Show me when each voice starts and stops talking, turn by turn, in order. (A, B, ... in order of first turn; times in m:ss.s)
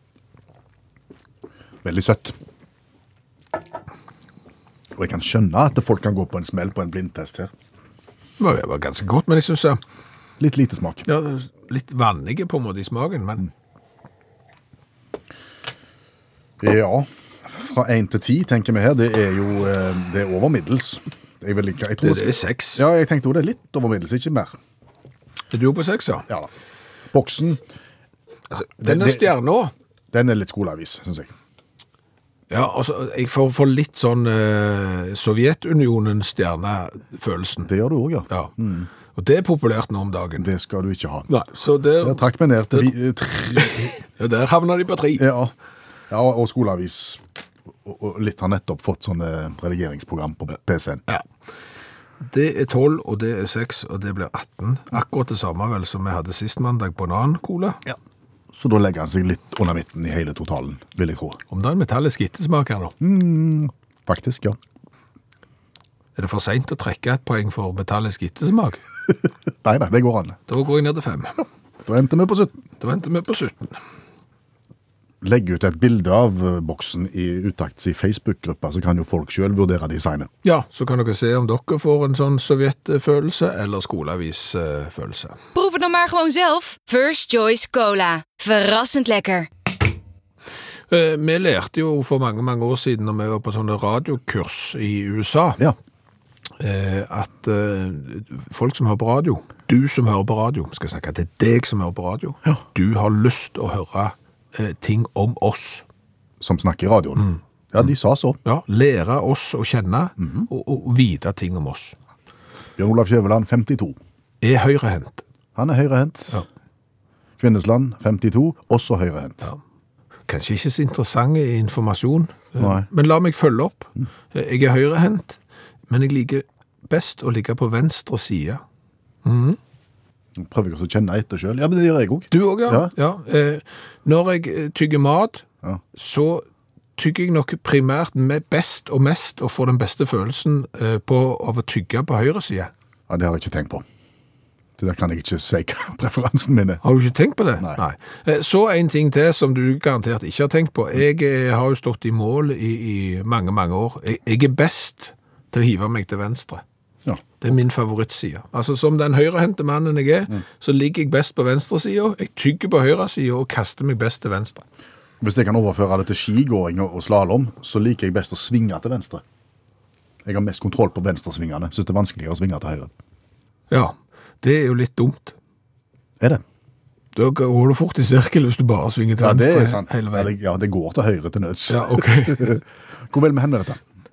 0:01.8-0:02.4 A
0:05.0-0:07.5 A
0:08.4-0:09.8 B
0:10.4-0:11.1 A
0:11.1-0:13.5 B
0:16.6-0:24.6 A
0:22.0-0:22.8 B
0:25.5-0:26.3 B
0:27.1-0:27.6 A
0:28.5-0:29.7 B
0:28.8-0:29.3 A
0:30.1-0:31.3 A
0:32.5-0:37.7 B
0:37.7-0:38.9 A
0:39.2-0:40.5 B
0:40.4-0:41.3 A
0:41.3-0:42.9 B
0:42.0-0:43.9 A
0:43.5-0:45.3 B
0:45.2-0:45.5 A
0:46.1-0:47.2 A
0:47.8-0:51.0 A
0:52.2-0:57.8 B
0:58.5-1:01.4 A
1:01.5-1:03.0 B
1:03.0-1:04.6 A
1:06.2-1:08.8 B
1:09.6-1:10.4 A
1:10.5-1:11.4 B
1:11.8-1:12.6 A
1:12.8-1:13.8 B
1:15.2-1:20.3 A
1:20.4-1:25.4 B
1:25.5-1:29.5 C
1:30.9-1:35.6 B
1:36.6-1:45.8 B
1:46.4-1:48.4 A
1:48.4-1:52.0 B
1:50.2-1:50.5 A
1:52.8-1:54.0 A
1:54.4-1:55.2 B
1:55.6-1:56.5 A
1:57.4-1:59.5 A
2:00.3-2:08.6 B
2:02.6-2:02.9 A
2:09.2-2:09.6 B
2:10.4-2:12.9 A
2:12.3-2:16.4 B
2:17.0-2:22.7 B
2:23.1-2:23.8 A
2:24.8-2:26.8 A
2:26.8-2:36.6 B
2:37.4-2:44.6 B
2:45.2-2:49.2 A
2:50.2-2:52.9 A
2:53.7-2:55.4 B
2:57.2-3:00.3 B
2:59.2-3:03.8 A
3:01.7-3:02.6 B